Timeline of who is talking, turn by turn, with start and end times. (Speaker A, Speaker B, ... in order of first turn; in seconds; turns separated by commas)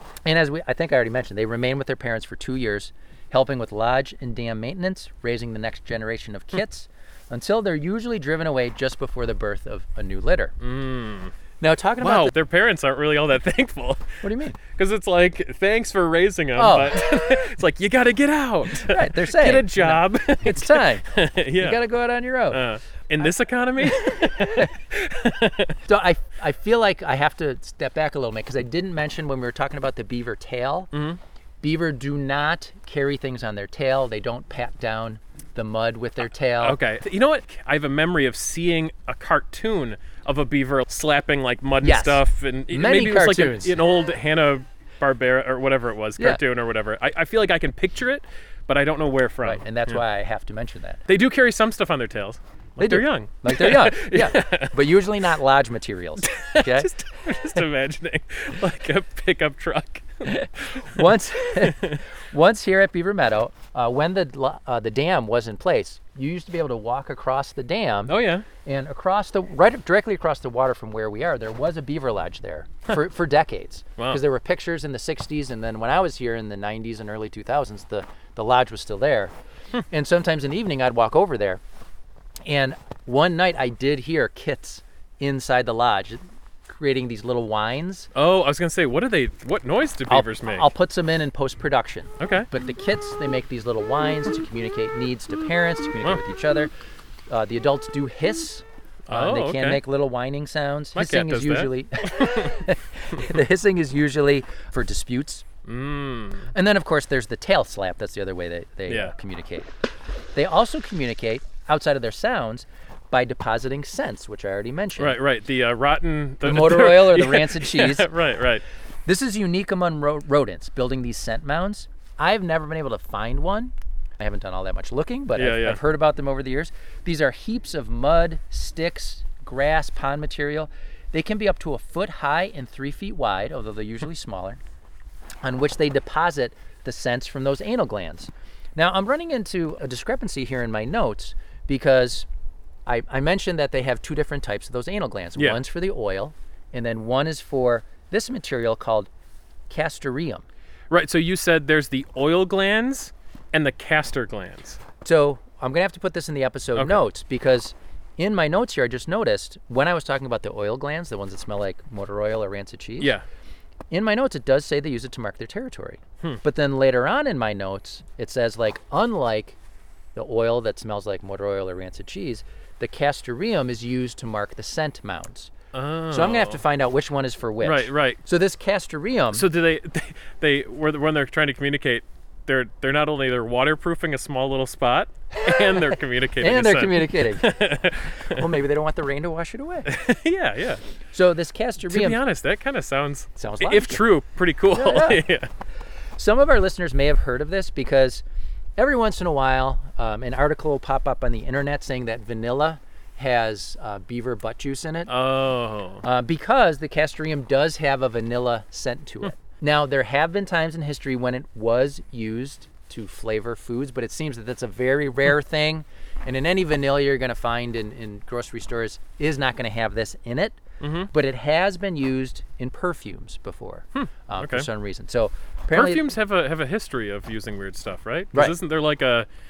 Speaker A: 0.2-10.5, Speaker B: 10.6-11.3, Speaker A: 11.6-12.3, Speaker B: 12.0-21.8, Speaker A: 14.2-14.6, Speaker A: 16.6-17.0, Speaker A: 18.8-21.0, Speaker A: 21.6-22.6, Speaker B: 22.5-25.8, Speaker A: 24.4-24.7, Speaker A: 25.9-30.9, Speaker B: 30.9-31.2, Speaker A: 31.6-36.8, Speaker B: 36.6-50.0, Speaker A: 41.8-43.7, Speaker A: 49.4-51.0, Speaker B: 51.1-54.8, Speaker A: 52.8-56.9, Speaker B: 56.2-62.0, Speaker A: 60.2-79.3, Speaker B: 68.1-68.5, Speaker A: 79.9-81.6, Speaker A: 82.5-88.1, Speaker B: 88.1-90.7, Speaker A: 90.1-96.7, Speaker B: 92.2-92.5, Speaker A: 97.3-105.4, Speaker B: 99.1-99.8, Speaker B: 100.9-102.6, Speaker B: 105.6-106.5, Speaker A: 106.5-109.7, Speaker B: 108.9-109.1, Speaker A: 110.3-115.2, Speaker B: 115.0-118.6, Speaker A: 116.4-118.1, Speaker A: 119.0-134.6, Speaker B: 125.3-125.8, Speaker A: 135.4-142.3, Speaker A: 142.8-149.1, Speaker B: 145.4-145.6, Speaker A: 149.7-150.4, Speaker B: 150.9-154.8, Speaker A: 155.0-163.1, Speaker B: 156.8-157.0, Speaker A: 163.9-169.6, Speaker A: 170.1-175.5, Speaker B: 175.7-176.6, Speaker A: 176.1-179.4, Speaker B: 177.6-178.2, Speaker B: 179.3-188.5, Speaker A: 186.4-189.9, Speaker B: 189.8-190.8, Speaker A: 191.1-192.2, Speaker B: 191.9-195.5, Speaker A: 193.3-194.0, Speaker A: 194.7-195.2, Speaker A: 196.2-198.2, Speaker A: 198.8-205.1, Speaker B: 205.1-206.0, Speaker A: 206.0-226.0, Speaker B: 220.8-221.1, Speaker B: 223.9-224.7, Speaker B: 225.7-229.3